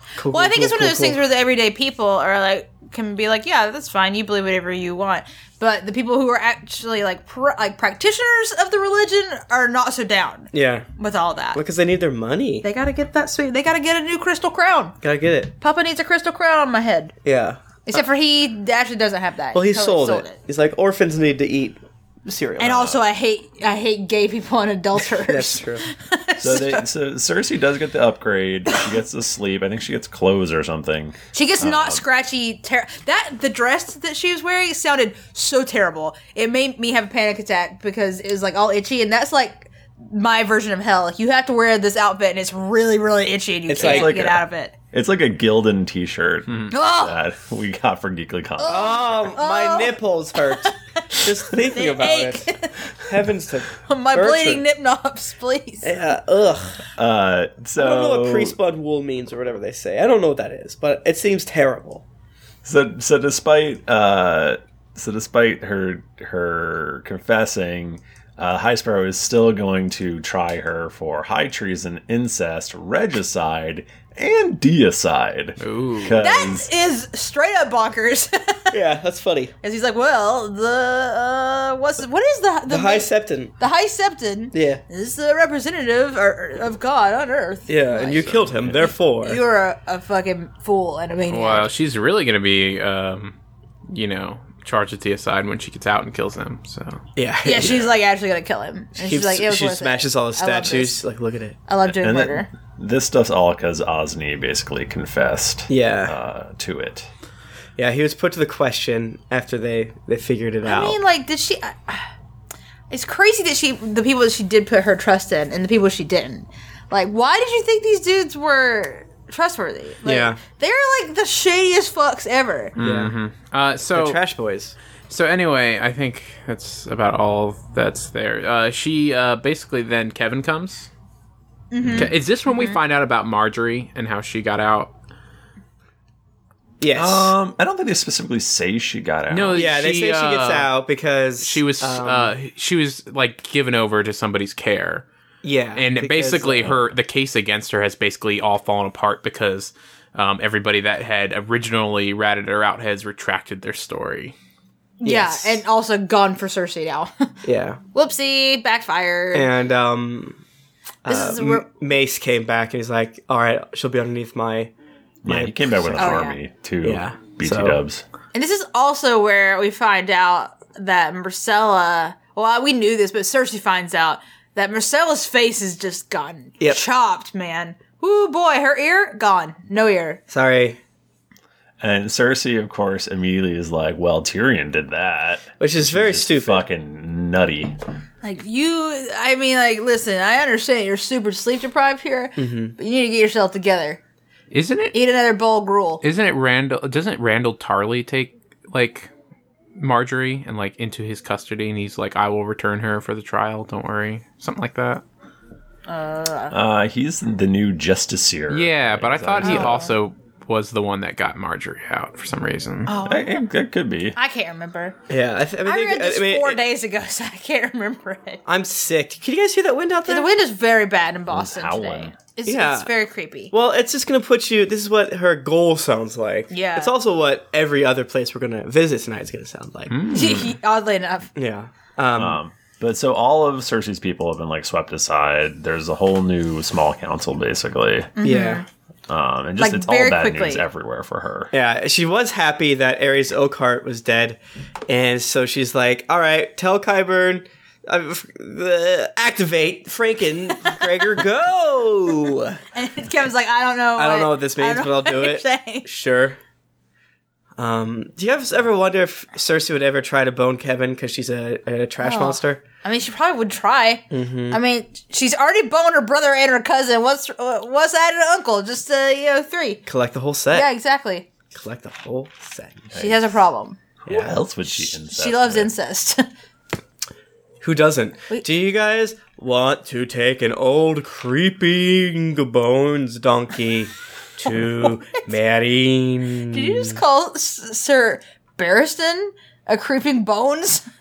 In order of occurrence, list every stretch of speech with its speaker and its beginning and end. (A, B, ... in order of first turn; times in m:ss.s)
0:00.2-0:01.2 A
0:00.3-0:11.6 B
0:10.5-0:10.9 A
0:11.5-0:12.7 A
0:12.6-0:15.0 B
0:15.0-0:15.5 A
0:15.6-0:17.1 B
0:17.2-0:18.0 A
0:17.9-0:20.4 B
0:19.5-0:22.9 A
0:22.6-0:26.9 B
0:22.6-0:23.0 C
0:25.1-0:25.9 A
0:26.4-0:32.0 C
0:31.3-0:44.8 B
0:43.7-0:44.1 A
0:43.8-0:49.3 C
0:46.7-0:47.2 B
0:48.6-0:50.0 B
0:48.7-0:52.5 A
0:50.6-0:53.1 B
0:53.0-0:54.6 A
0:53.8-0:56.0 B
0:55.8-0:56.8 A
0:56.9-0:58.6 C
0:57.8-1:02.0 A
1:02.6-1:16.7 C
1:15.6-1:16.2 D
1:16.2-1:18.8 B
1:18.7-1:19.5 A
1:19.6-1:23.1 B
1:22.7-1:23.5 A
1:23.6-1:31.7 B
1:24.5-1:24.8 A
1:27.7-1:29.4 A
1:31.3-1:33.4 D
1:33.9-1:37.0 D
1:37.2-1:37.9 A
1:37.4-1:41.0 B
1:39.0-1:41.6 A
1:41.7-1:42.5 B
1:41.9-1:47.1 C
1:45.7-1:46.2 A
1:47.8-1:51.0 A
1:50.6-1:52.1 B
1:52.9-2:02.8 B
2:00.0-2:00.4 A
2:02.8-2:04.2 D
2:02.8-2:03.2 A
2:03.9-2:04.8 A
2:05.1-2:10.9 D
2:11.7-2:12.8 B
2:11.8-2:12.1 C
2:11.9-2:14.9 D
2:16.8-2:17.3 A
2:16.9-2:19.6 C
2:19.3-2:20.7 D
2:19.6-2:22.3 A
2:21.4-2:25.1 D
2:25.4-2:26.7 A
2:25.8-2:34.4 D
2:26.6-2:26.9 C
2:35.0-2:37.3 B
2:35.0-2:35.6 A
2:37.4-2:37.8 A
2:37.9-2:39.5 B
2:39.3-2:40.4 A
2:41.0-2:44.7 A
2:41.1-2:41.7 B
2:45.2-2:48.0 C
2:45.3-2:46.3 A
2:46.0-2:46.4 B
2:46.8-2:47.8 A
2:48.3-3:00.2 B
3:00.3-3:00.8 A
3:01.8-3:07.8 C
3:05.6-3:06.6 A
3:08.2-3:14.0 B
3:12.4-3:12.8 A
3:14.5-3:15.0 D
3:14.9-3:16.0 B
3:16.0-3:19.1 D
3:19.8-3:25.0 D
3:25.9-3:26.6 B
3:26.5-3:29.9 C
3:28.5-3:32.9 D
3:29.4-3:29.9 B
3:32.9-3:33.4 B
3:33.0-3:34.2 C
3:34.2-3:35.0 B
3:35.1-3:36.6 A
3:35.6-3:38.4 B
3:38.5-3:40.4 A
3:40.1-3:43.5 B
3:41.3-3:42.2 C
3:42.5-3:42.9 A
3:43.5-3:50.1 A
3:46.5-3:46.9 B
3:49.9-3:50.6 D
3:50.1-3:51.3 B
3:51.4-3:52.4 A
3:52.2-3:58.2 C
3:58.2-3:58.6 B
3:58.2-3:58.6 A
3:59.1-4:01.5 C
3:59.6-4:00.6 B
4:01.5-4:12.6 A
4:12.7-4:15.9 B
4:14.0-4:16.4 A
4:17.6-4:22.6 A
4:22.0-4:29.8 B
4:24.1-4:24.6 A
4:29.9-4:30.7 A
4:30.5-4:31.3 B
4:31.5-4:32.9 A
4:32.9-4:33.2 C
4:32.9-4:33.8 B
4:34.1-4:35.7 C
4:34.1-4:34.4 A
4:34.7-4:36.2 B
4:37.6-4:47.0 A
4:44.5-4:45.2 B
4:46.5-4:50.9 B